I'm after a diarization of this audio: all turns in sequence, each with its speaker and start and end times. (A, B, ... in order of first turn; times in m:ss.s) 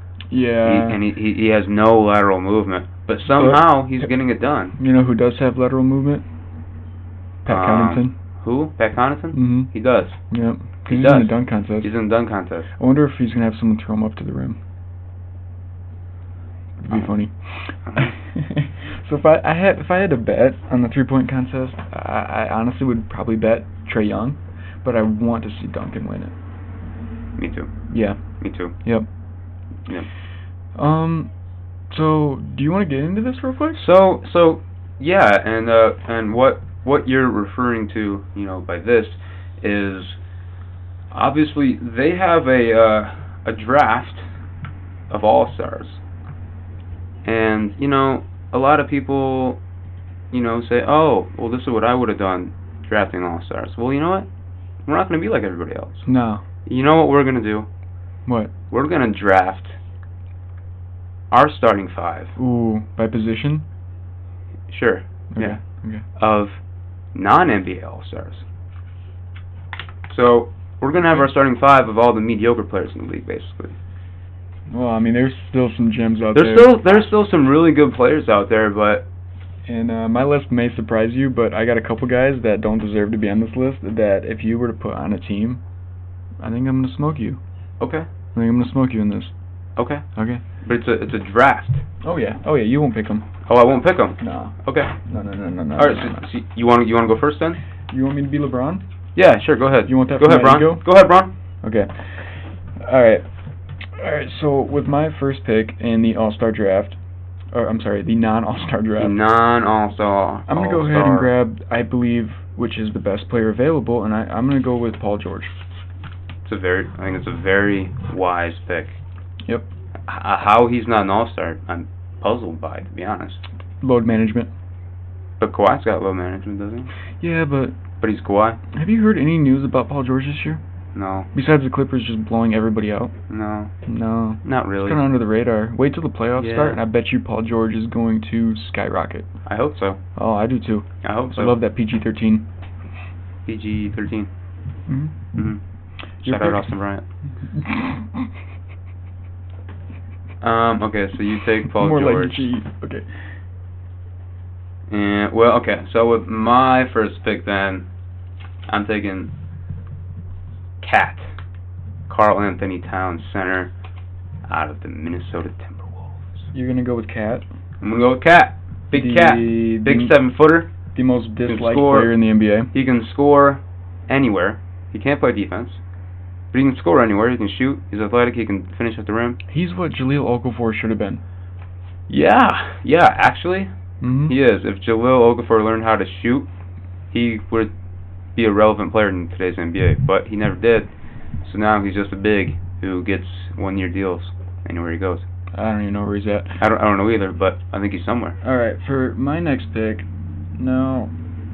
0:00.3-0:01.0 A
0:00.6-0:04.8 B
0:03.3-0:04.0 A
0:04.8-0:06.2 A
0:07.4-0:08.1 A
0:07.5-0:10.2 B
0:09.3-0:09.7 A
0:10.3-0:11.9 A
0:10.9-0:12.7 B
0:12.8-0:14.6 A
0:16.8-0:26.3 A
0:17.8-0:18.1 B
0:27.4-0:27.7 B
0:27.9-0:28.2 A
0:28.4-0:28.7 B
0:30.7-0:31.3 A
0:31.9-0:33.8 A
0:33.7-0:40.2 B
0:41.1-0:44.2 B
0:45.1-0:46.0 B
0:47.2-0:49.6 B
0:50.3-0:54.3 B
0:54.9-0:56.0 B
0:56.0-0:56.4 A
0:56.6-0:57.7 B
0:58.2-0:58.5 A
0:58.7-0:59.8 B
1:01.3-1:02.3 B
1:02.4-1:03.6 A
1:04.7-1:05.6 B
1:05.3-1:06.0 A
1:06.2-1:06.6 B
1:07.1-1:08.4 B
1:10.1-1:13.8 B
1:14.7-1:16.8 A
1:16.3-1:19.0 B
1:19.6-1:25.6 A
1:26.4-1:27.4 A
1:27.8-1:28.1 B
1:28.3-1:29.3 A
1:29.8-1:30.0 B
1:30.2-1:30.4 A
1:30.6-1:31.8 B
1:32.0-1:33.3 A
1:33.5-1:35.0 B
1:34.2-1:36.3 A
1:35.8-1:37.6 B
1:37.9-1:38.8 A
1:39.2-1:41.3 B
1:39.8-1:40.8 A
1:41.6-1:43.2 A
1:43.9-1:47.0 A
1:47.5-1:49.2 A
1:49.0-1:51.3 B
1:50.5-1:55.5 A
1:56.4-1:59.0 B
2:00.1-2:03.4 B
2:03.8-2:04.5 A
2:05.4-2:06.9 B
2:07.2-2:07.7 A
2:08.0-2:08.6 B
2:08.7-2:10.6 A
2:10.9-2:11.3 B
2:11.3-2:13.1 A
2:13.3-2:13.7 B
2:13.8-2:19.3 A
2:14.4-2:15.0 B
2:16.4-2:16.8 B
2:19.4-2:20.0 B
2:20.2-2:22.4 A
2:21.0-2:21.6 B
2:23.4-2:24.3 B
2:24.9-2:25.1 A
2:25.3-2:25.6 B
2:26.2-2:26.7 A
2:26.2-2:27.0 B
2:27.5-2:28.3 A
2:30.4-2:32.5 B
2:31.7-2:33.1 A
2:34.9-2:37.9 B
2:38.7-2:39.3 B
2:40.8-2:41.3 B
2:42.1-2:43.7 B
2:44.5-2:46.4 B
2:46.5-2:47.4 A
2:47.8-2:50.7 B
2:48.9-2:50.2 A
2:50.9-2:52.7 A
2:51.5-2:52.1 B
2:52.7-2:55.8 B
2:56.5-2:59.4 B
2:59.5-3:01.2 A
3:02.1-3:03.7 B
3:04.0-3:04.3 A
3:04.3-3:06.5 B
3:07.1-3:07.7 B
3:08.4-3:10.9 B
3:11.4-3:15.2 B
3:15.5-3:16.6 A
3:16.6-3:18.4 B
3:18.4-3:21.1 A